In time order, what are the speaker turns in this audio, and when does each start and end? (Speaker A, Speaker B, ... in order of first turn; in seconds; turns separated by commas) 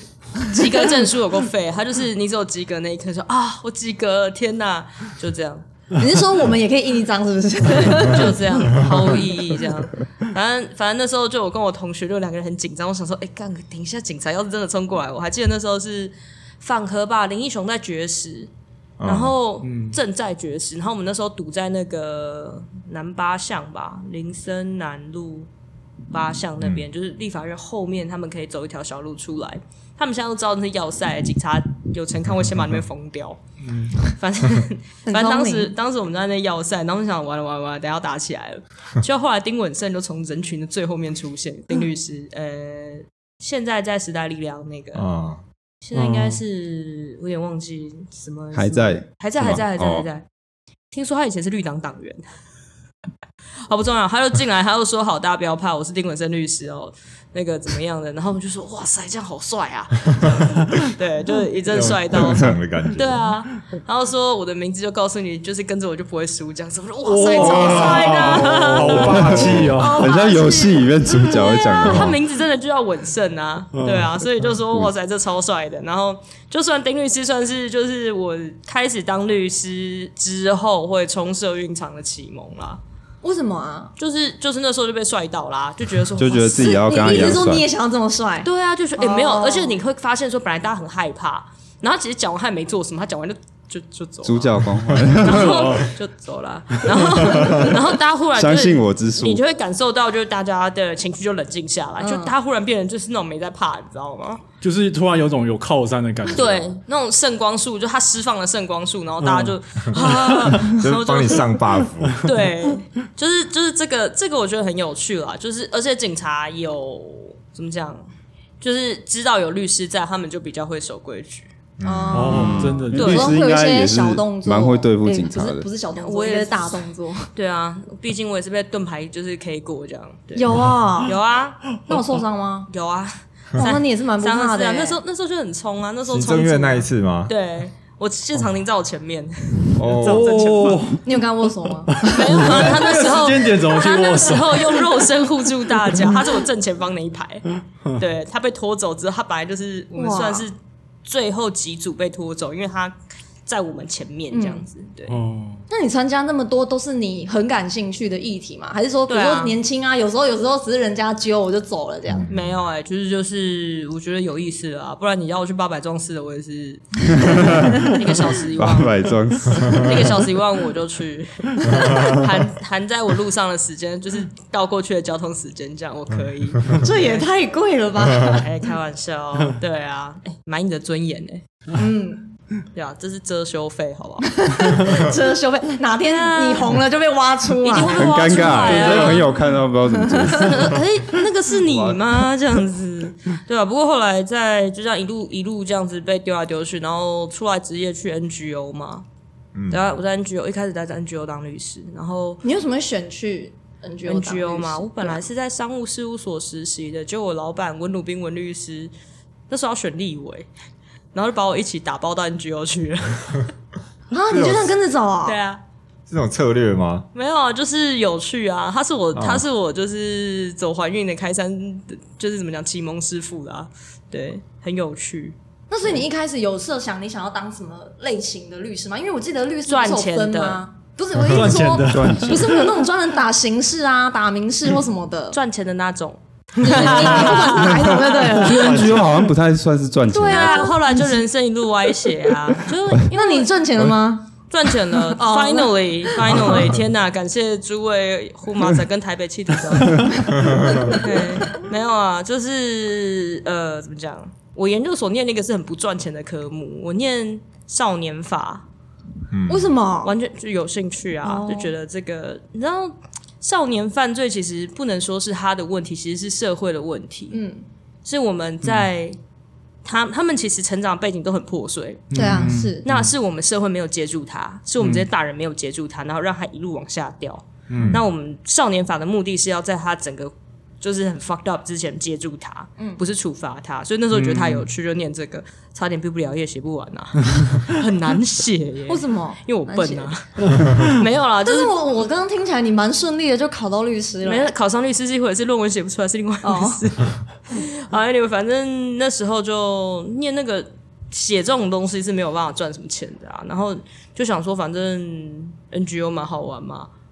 Speaker A: 0.3-5.6, Speaker B: 6.0-8.4, Speaker A: 8.0-18.5, Speaker C: 19.0-19.3, Speaker A: 19.0-25.5, Speaker D: 19.6-20.0, Speaker A: 26.1-33.4, Speaker D: 33.6-34.1, Speaker A: 34.0-45.0, Speaker B: 35.0-35.7, Speaker C: 44.9-45.4, Speaker A: 45.8-50.2, Speaker D: 45.9-46.4, Speaker E: 48.5-50.1, Speaker A: 50.9-52.2, Speaker A: 53.7-82.8, Speaker C: 61.6-63.3, Speaker E: 62.2-62.5, Speaker D: 67.1-70.0, Speaker C: 67.2-70.0, Speaker E: 67.7-72.2, Speaker D: 73.7-74.3, Speaker B: 83.2-83.9, Speaker A: 84.0-87.4, Speaker E: 86.2-87.7, Speaker B: 86.5-89.8, Speaker A: 88.4-104.4, Speaker E: 94.2-95.8, Speaker D: 95.2-95.9, Speaker C: 97.3-97.7, Speaker E: 98.3-99.4, Speaker B: 102.0-102.3, Speaker D: 104.6-106.8, Speaker A: 106.2-111.6, Speaker D: 109.2-110.7, Speaker C: 110.5-112.2, Speaker A: 112.2-118.0, Speaker A: 118.6-121.5, Speaker C: 121.8-122.8, Speaker B: 121.8-127.3, Speaker D: 122.1-123.1, Speaker E: 122.3-125.7, Speaker A: 123.0-123.3, Speaker A: 126.0-130.5, Speaker B: 130.3-131.2, Speaker A: 131.0-132.1, Speaker B: 131.8-132.7, Speaker A: 132.7-140.8, Speaker B: 133.6-135.0, Speaker C: 136.1-137.3, Speaker C: 139.8-140.7, Speaker D: 140.0-141.1, Speaker B: 140.9-142.8, Speaker D: 141.9-145.0, Speaker A: 142.1-155.2, Speaker B: 149.9-150.5, Speaker B: 154.3-154.6, Speaker D: 155.1-155.6, Speaker B: 155.7-162.3, Speaker A: 159.1-159.6, Speaker C: 162.1-162.5, Speaker A: 162.3-177.2, Speaker E: 167.2-167.9, Speaker E: 168.5-170.2, Speaker B: 176.7-178.4, Speaker A: 178.1-181.4, Speaker B: 181.7-182.3, Speaker A: 182.7-184.7, Speaker B: 184.3-188.0, Speaker A: 186.0-186.8, Speaker A: 187.6-189.3, Speaker E: 187.8-190.8, Speaker B: 188.7-189.0, Speaker B: 190.0-190.5, Speaker A: 190.2-199.1, Speaker C: 191.6-192.0, Speaker C: 199.5-199.8, Speaker A: 199.7-202.4, Speaker B: 202.4-205.2, Speaker A: 204.0-208.9, Speaker A: 209.5-210.5, Speaker A: 211.1-213.5, Speaker B: 214.1-215.4, Speaker C: 214.3-214.7, Speaker A: 215.2-215.6, Speaker C: 216.1-217.1, Speaker A: 217.1-225.3, Speaker C: 219.1-219.4, Speaker B: 225.7-235.4, Speaker A: 229.7-230.6, Speaker D: 231.3-232.7, Speaker E: 231.9-232.6, Speaker A: 235.3-239.1, Speaker B: 236.6-238.9, Speaker E: 238.5-240.8, Speaker C: 238.6-239.0, Speaker B: 240.1-241.2, Speaker A: 240.2-243.5, Speaker B: 243.1-244.3, Speaker A: 244.5-258.6, Speaker B: 245.0-246.6, Speaker C: 250.3-250.9, Speaker B: 250.8-251.0, Speaker C: 259.3-259.7, Speaker B: 259.5-260.1, Speaker A: 260.0-267.4, Speaker B: 261.2-261.7, Speaker B: 267.3-267.6, Speaker A: 268.0-269.2, Speaker A: 269.8-291.7, Speaker D: 272.1-273.1, Speaker B: 272.1-272.8, Speaker D: 274.8-275.1, Speaker D: 277.7-278.0, Speaker D: 284.1-284.7, Speaker B: 288.9-290.1, Speaker D: 290.5-290.9, Speaker B: 291.4-294.5, Speaker A: 294.2-306.9, Speaker B: 296.4-296.8